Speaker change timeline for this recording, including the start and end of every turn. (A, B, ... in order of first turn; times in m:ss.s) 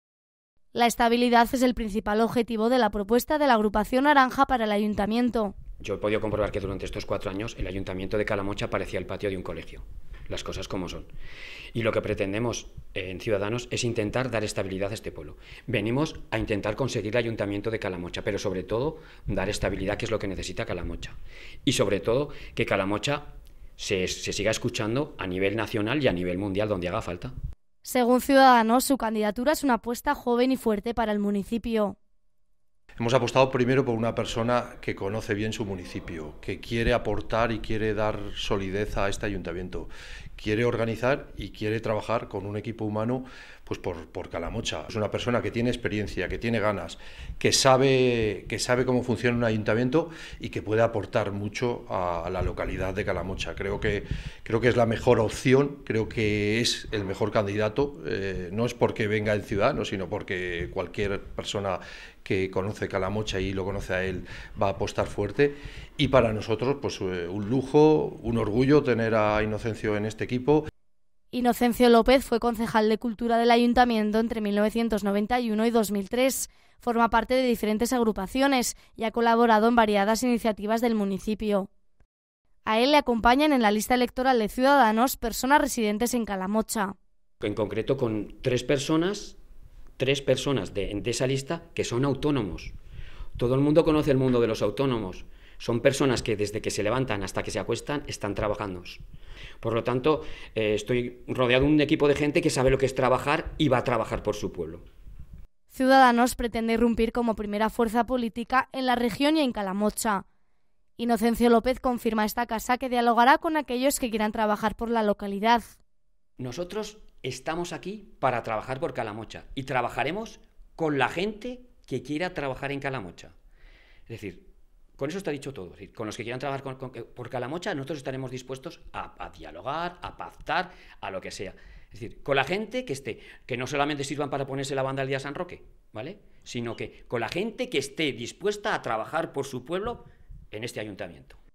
0:00.7-0:05.6 A
0:05.8-0:11.1 B
0:11.7-0:27.3 B
0:27.8-0:32.0 A
0:33.0-1:10.6 C
1:11.3-1:21.7 A
1:22.6-1:27.0 A
1:27.4-1:29.4 B
1:30.0-1:32.8 B
1:33.4-1:39.0 B
1:39.6-1:44.8 B
1:45.7-1:50.2 A
1:51.0-1:55.7 A
1:56.4-2:03.4 B
2:04.1-2:21.4 B